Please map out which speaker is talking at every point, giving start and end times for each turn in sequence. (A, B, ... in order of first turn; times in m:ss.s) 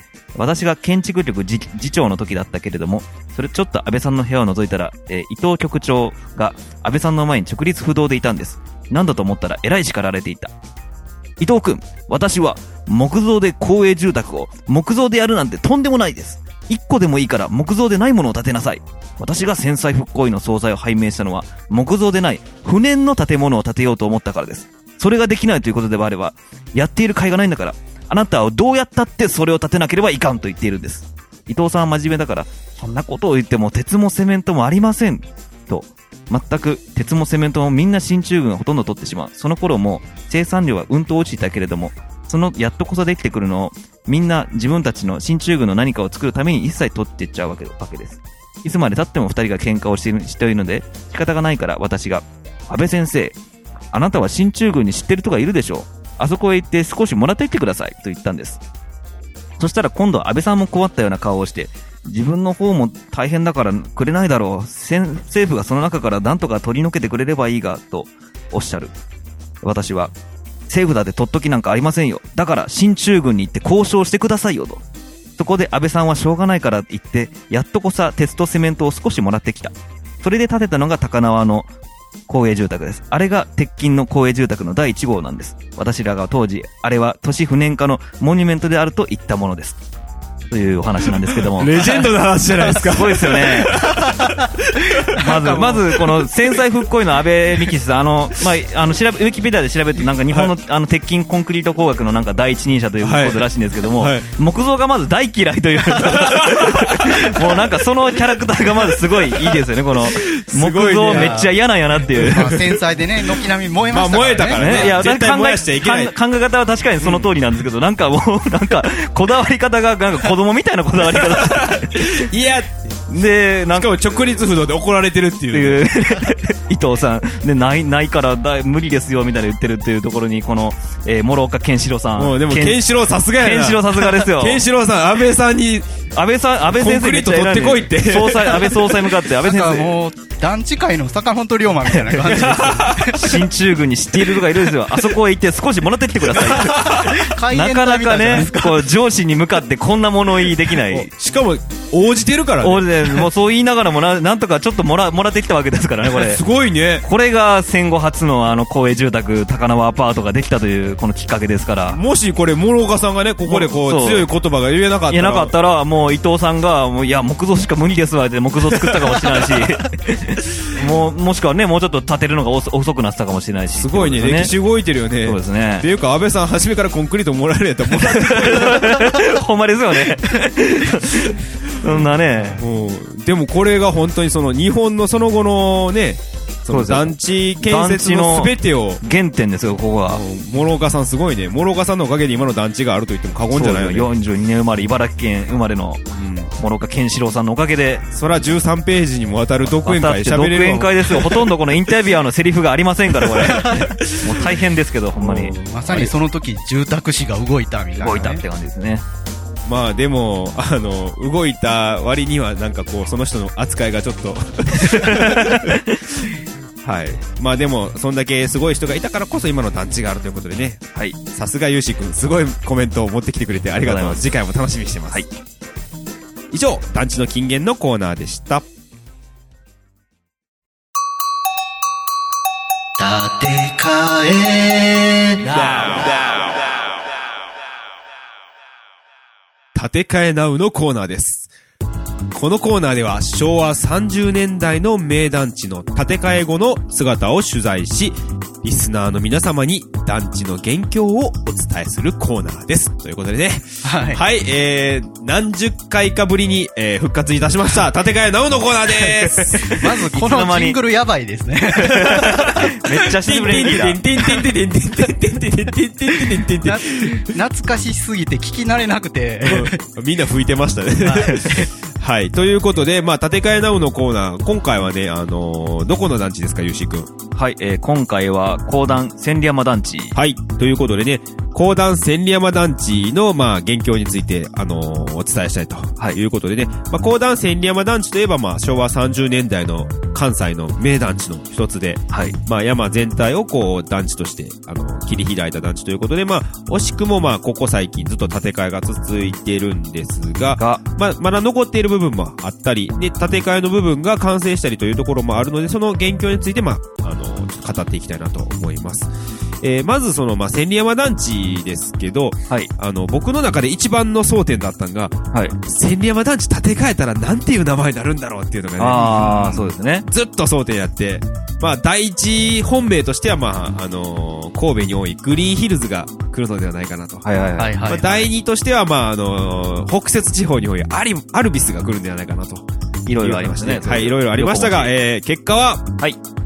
0:00.4-0:10.5 A
0:11.4-0:53.4 A
0:53.9-0:58.6 A
0:59.6-1:08.9 A
1:09.6-1:10.1 A
1:10.7-1:14.8 A
1:15.4-1:21.7 A
1:22.3-1:29.8 A
1:30.5-1:32.1 A
1:31.1-1:36.3 B
1:32.7-1:33.9 A
1:34.0-1:34.5 C
1:35.0-1:35.8 C
1:35.2-1:52.6 A
1:40.3-1:40.5 B
1:43.0-1:44.3 B
1:46.0-1:47.7 B
1:48.9-1:51.5 B
1:51.0-1:51.5 C
1:52.1-1:52.8 B
1:52.2-1:54.9 C
1:53.4-1:56.1 B
1:54.5-2:02.3 A
1:57.0-1:57.3 B
2:01.2-2:03.0 B
2:03.1-2:03.9 A
2:03.7-2:06.2 B
2:05.5-2:14.6 A
2:12.2-2:16.0 B
2:16.1-2:19.9 A
2:16.7-2:19.0 B
2:19.4-2:23.3 C
2:22.3-2:31.1 A
2:22.4-2:23.3 B
2:26.4-2:27.1 B
2:27.0-2:28.9 C
2:30.7-2:33.3 B
2:32.6-2:36.4 A
2:36.1-2:37.1 B
2:37.0-2:42.0 A
2:41.9-2:45.5 B
2:43.5-2:44.3 A
2:45.1-2:54.5 A
2:53.8-2:59.1 B
2:55.2-2:55.9 A
2:58.0-3:02.6 A
3:01.8-3:09.0 B
3:06.7-3:10.2 A
3:10.1-3:14.1 B
3:13.5-3:16.1 A
3:16.2-3:16.5 B
3:16.6-3:18.1 A
3:18.1-3:21.5 B
3:19.7-3:26.1 A
3:24.0-3:24.5 B
3:25.2-3:26.0 B
3:25.4-3:28.4 C
3:28.0-3:29.0 A
3:29.7-3:35.8 B
3:34.8-3:36.0 A
3:36.8-3:45.2 B
3:43.8-3:44.2 A
3:46.5-3:48.7 B
3:53.0-3:55.5 C
3:55.5-3:55.9 A
3:59.7-4:01.5 B
4:02.3-4:19.8 B
4:13.8-4:14.2 C
4:19.1-4:20.8 A
4:19.6-4:22.5 C
4:21.8-4:24.0 A
4:22.0-4:27.3 B
4:26.6-4:29.8 C
4:29.4-4:37.1 B
4:31.0-4:31.7 C
4:37.4-4:40.2 A
4:40.1-5:27.3 B
5:18.8-5:20.1 A
5:19.0-5:19.6 C
5:27.2-5:28.2 A
5:27.6-5:28.1 C
5:27.8-5:32.7 B
5:33.1-5:34.9 A
5:33.2-5:35.9 B